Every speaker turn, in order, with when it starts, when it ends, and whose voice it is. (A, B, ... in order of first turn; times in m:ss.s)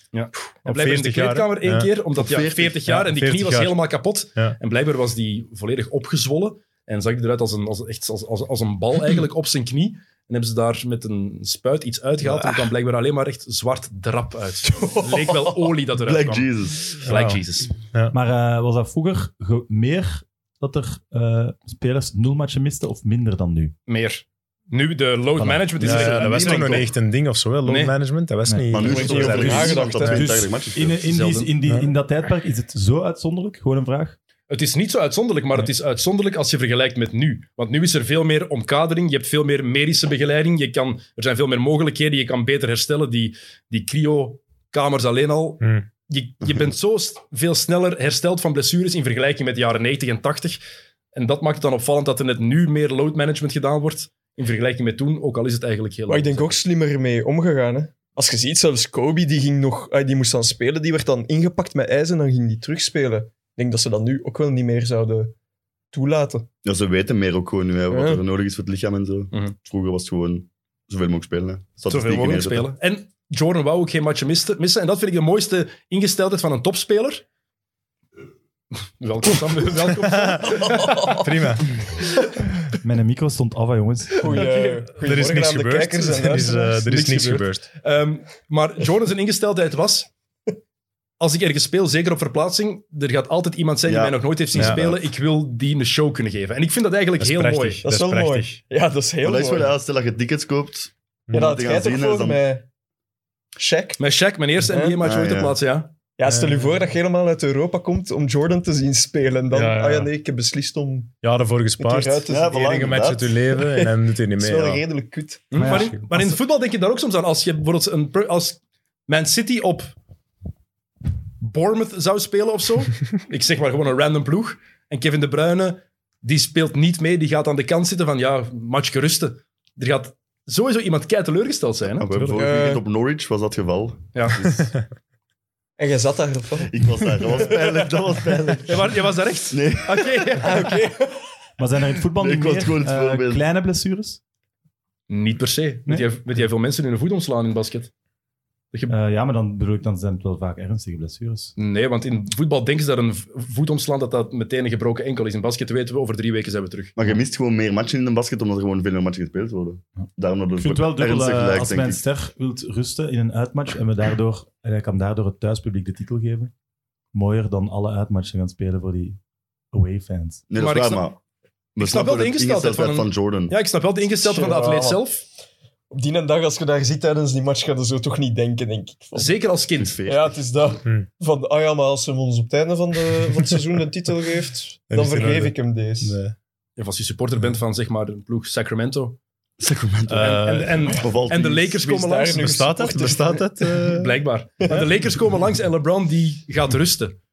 0:00.1-0:17.7 A
0:00.6-0:01.9 B
0:02.2-0:02.8 C
0:02.9-0:03.8 B
0:12.3-0:12.6 B
0:14.6-0:15.7 D
0:16.0-0:17.0 C
0:17.0-0:17.4 B
0:18.1-0:23.8 E
0:23.9-0:26.9 A
0:25.4-0:25.8 E
0:25.8-0:29.7 B
0:25.8-0:26.9 C
0:27.6-0:27.9 A
0:28.5-0:29.5 E
0:28.7-0:31.0 C
0:28.8-0:30.4 D
0:29.0-0:29.8 A
0:30.0-0:34.2 E
0:31.0-0:31.5 A
0:34.5-0:50.6 A
0:45.6-0:45.9 B
0:51.1-0:56.6 A
0:56.1-1:05.3 D
1:05.9-1:06.5 D
1:06.6-1:12.7 C
1:07.9-1:08.2 D
1:11.9-1:17.2 A
1:18.8-1:21.2 A
1:20.0-1:21.8 B
1:20.6-1:21.3 D
1:22.8-1:24.4 E
1:24.2-1:27.5 D
1:24.3-1:24.9 A
1:25.0-1:27.7 B
1:27.8-1:30.1 A
1:31.2-1:37.8 A
1:33.9-1:35.0 C
1:34.6-1:34.8 B
1:37.2-1:38.6 B
1:37.8-1:39.7 D
1:39.2-1:42.4 C
1:41.3-1:41.6 B
1:41.3-1:42.6 D
1:43.6-1:44.0 D
1:44.0-1:46.0 A
1:44.6-1:45.0 D
1:45.0-1:45.6 C
1:46.2-1:51.1 D
1:46.3-1:46.8 B
1:49.5-1:50.1 B
1:51.2-1:54.8 B
1:51.8-1:52.6 D
1:52.3-1:53.4 C
1:53.6-1:55.5 D
1:55.5-2:00.0 A
1:55.6-1:56.3 E
1:55.6-1:56.0 B
2:01.4-2:12.1 A
2:12.0-2:14.7 C
2:12.1-2:12.5 B
2:12.4-2:12.8 D
2:14.1-2:14.4 A
2:15.8-2:18.4 D
2:16.7-2:20.4 C
2:18.7-2:20.8 A
2:20.4-2:21.2 D
2:21.6-2:24.2 E
2:22.2-2:23.4 C
2:25.1-2:27.9 A
2:28.9-2:31.5 E
2:31.6-2:36.9 A
2:37.0-2:42.0 C
2:40.6-2:46.5 E
2:47.1-2:49.2 E
2:49.7-2:50.4 E
2:50.5-2:51.2 C
2:50.5-2:51.1 A
2:51.8-2:53.6 C
2:51.8-2:55.2 A
2:54.2-2:55.1 D
2:55.9-2:59.4 D
2:59.2-3:00.0 A
2:59.8-3:00.4 C
3:00.1-3:06.2 D
3:04.9-3:06.3 B
3:06.8-3:09.2 A
3:09.6-3:11.8 C
3:10.1-3:10.9 B
3:10.2-3:12.5 A
3:11.8-3:13.8 D
3:12.3-3:14.2 B
3:13.9-3:17.2 A
3:14.6-3:14.9 D